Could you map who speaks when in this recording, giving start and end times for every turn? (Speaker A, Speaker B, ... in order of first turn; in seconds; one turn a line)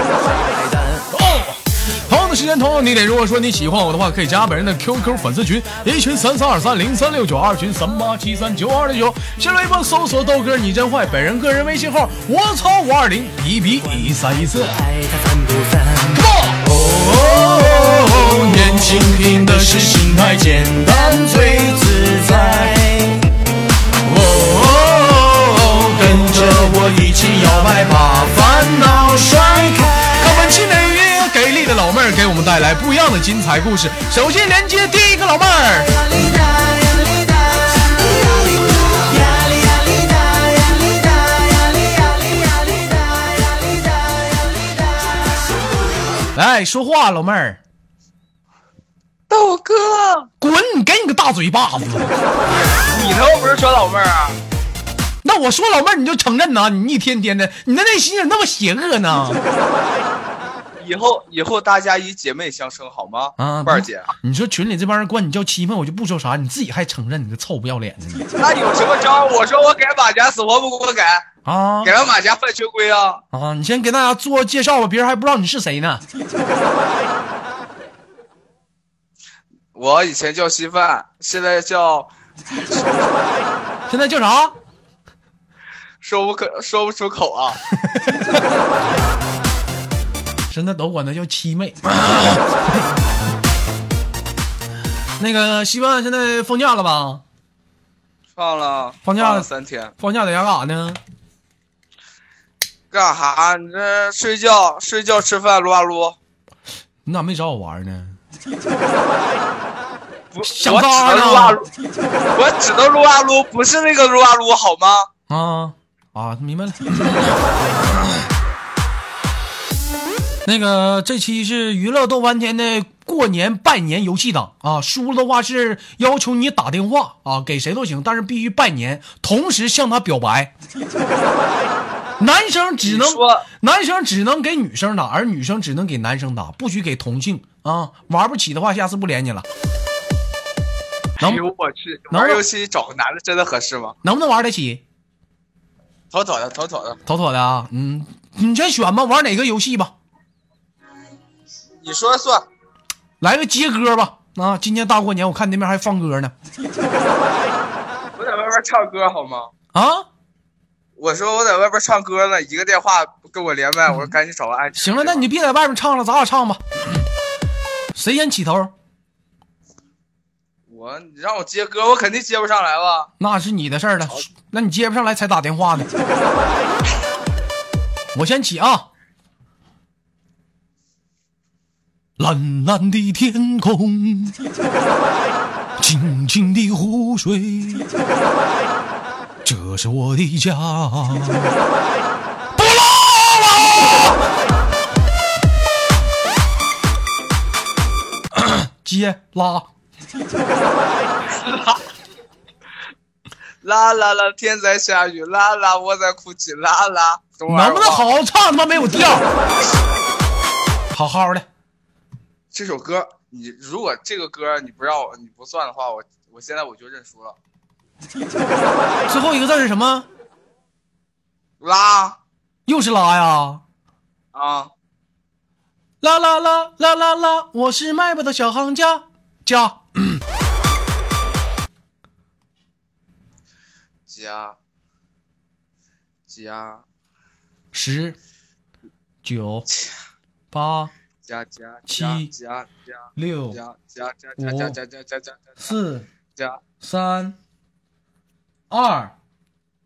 Speaker A: 0.3-1.0
Speaker B: 1.1-14.8
Speaker A: 14.6-16.2
Speaker B: 16.1-22.7
Speaker A: 18.8-23.2
Speaker B: 24.0-35.9
Speaker B: 46.3-47.6
Speaker C: 49.3-50.3
Speaker B: 50.4-52.1
Speaker C: 52.8-54.4
Speaker B: 55.2-59.4
Speaker C: 60.8-64.1
Speaker B: 63.4-68.3
Speaker C: 68.4-71.3
Speaker B: 71.4-71.9
Speaker C: 71.8-73.2
Speaker B: 73.3-76.0
Speaker C: 79.7-83.3
Speaker B: 83.9-84.5
Speaker C: 86.0-87.6
Speaker B: 87.8-88.4
Speaker B: 90.5-92.8
Speaker B: 95.2-97.2
Speaker C: 98.3-99.9
Speaker B: 99.0-101.0
Speaker C: 102.9-106.2
Speaker B: 107.0-108.2
Speaker C: 110.3-111.7
Speaker B: 110.5-111.6
Speaker C: 112.3-115.1
Speaker B: 115.3-118.2
Speaker B: 120.4-130.5
Speaker B: 132.2-139.5
Speaker C: 132.8-133.4
Speaker C: 141.2-143.9
Speaker B: 142.1-142.4
Speaker B: 144.0-144.8
Speaker C: 146.1-147.0
Speaker B: 147.1-149.9
Speaker C: 151.8-152.4
Speaker B: 153.2-156.3
Speaker C: 158.2-159.5
Speaker B: 159.7-160.1
Speaker C: 160.9-165.2
Speaker B: 164.8-166.6
Speaker B: 167.9-168.7
Speaker C: 170.7-173.1
Speaker B: 173.2-175.9
Speaker B: 178.1-178.9
Speaker B: 182.2-184.3
Speaker B: 185.8-187.9
Speaker B: 189.4-191.5
Speaker B: 192.5-194.2
Speaker B: 198.3-199.7
Speaker C: 201.2-201.8
Speaker C: 203.6-208.2
Speaker B: 207.5-209.2
Speaker B: 210.9-211.5
Speaker C: 212.5-217.4
Speaker B: 219.1-220.1
Speaker C: 221.6-222.2
Speaker B: 222.7-223.6
Speaker C: 224.3-224.7
Speaker B: 226.0-230.2
Speaker C: 234.1-234.6
Speaker C: 236.3-236.8
Speaker B: 237.7-238.2
Speaker B: 239.2-239.7
Speaker C: 239.7-239.9
Speaker B: 240.5-240.9
Speaker C: 241.2-245.7
Speaker B: 241.9-242.3
Speaker B: 243.2-243.6
Speaker B: 244.4-244.8
Speaker B: 245.6-246.1
Speaker C: 246.3-246.6
Speaker B: 246.8-247.3
Speaker B: 248.7-249.1